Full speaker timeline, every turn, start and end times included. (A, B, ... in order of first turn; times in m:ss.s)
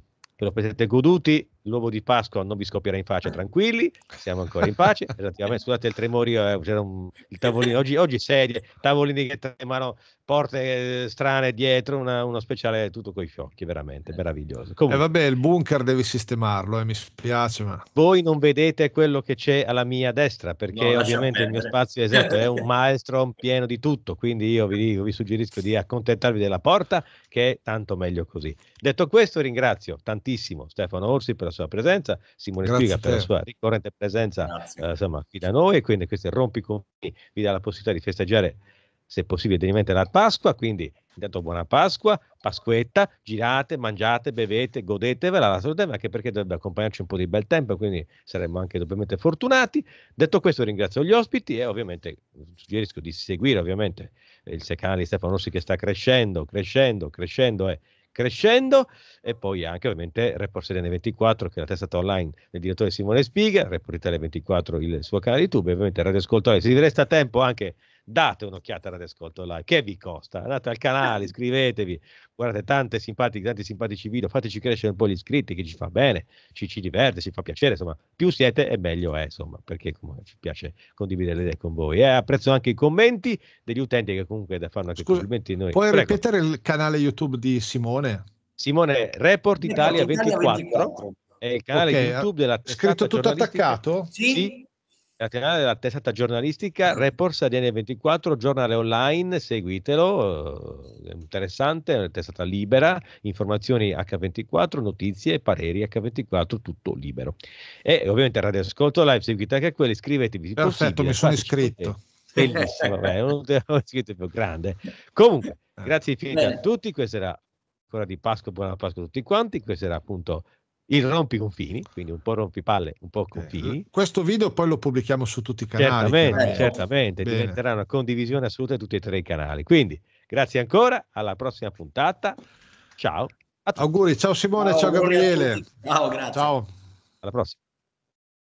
0:00.4-0:15.0 A
0:14.9-0:17.8 B
0:17.9-1:26.2 A
0:20.7-0:22.5 C
0:32.6-0:33.3 B
0:34.4-0:34.8 C
1:25.0-1:28.2 B
1:28.6-1:34.6 A
1:29.6-1:31.2 C
1:31.7-1:34.1 B
1:34.1-1:34.6 C
1:35.2-2:03.8 A
1:50.6-1:52.0 B
1:52.4-1:53.1 C
1:56.3-1:56.6 C
2:03.3-2:06.7 B
2:05.8-2:12.4 A
2:06.3-2:06.8 C
2:07.2-2:07.6 B
2:13.0-2:13.8 A
2:13.8-2:15.6 B
2:14.6-2:16.5 C
2:16.3-2:16.7 B
2:17.2-2:17.6 A